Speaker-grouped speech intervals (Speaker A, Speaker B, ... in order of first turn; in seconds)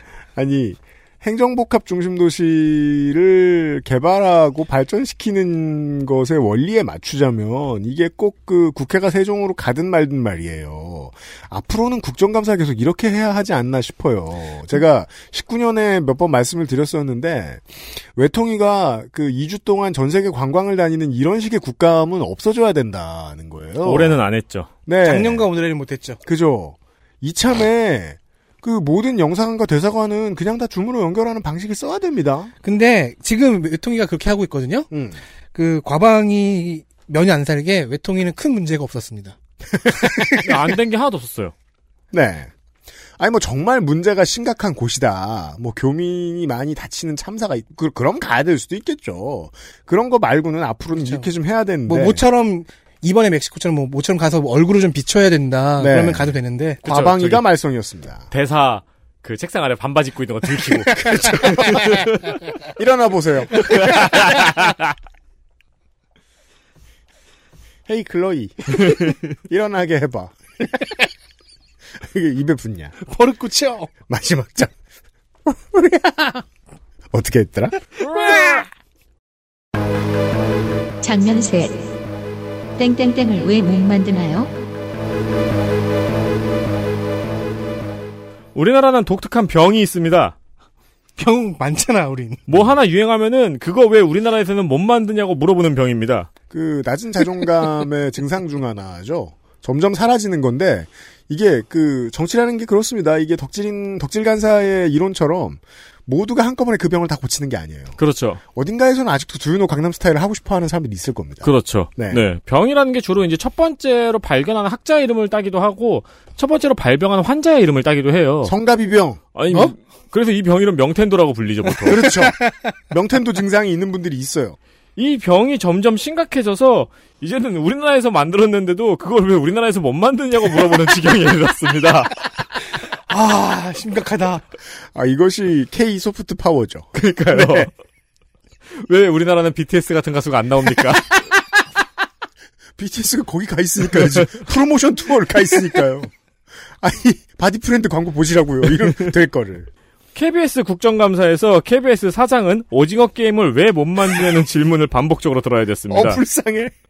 Speaker A: 0.3-24.2, 24.9-25.5, 26.2-32.5, 34.9-35.2, 39.7-40.5, 42.1-42.5, 43.2-52.2, 55.8-58.3, 60.9-64.4, 67.9-71.0, 72.0-73.0, 74.1-74.8, 75.5-76.5, 77.1-77.8, 96.5-108.0, 108.5-112.2, 118.4-119.2, 121.8-124.6, 134.9-137.7, 142.8-146.1, 146.8-149.7, 155.9-156.7
Speaker B: 23.8-24.7, 40.4-41.5, 56.9-57.4, 58.3-62.3, 63.7-64.8, 88.5-90.4, 92.5-96.3, 108.0-108.4, 111.4-118.5, 119.3-122.1, 125.0-132.1, 136.9-137.7, 138.8-141.2, 144.1-144.3, 150.2-156.2
Speaker C: 25.0-26.2, 32.6-34.9, 35.5-39.4, 50.9-51.3, 51.9-56.8, 73.1-73.9, 91.2-92.5, 133.1-134.4
Speaker D: 81.0-81.9, 82.8-84.5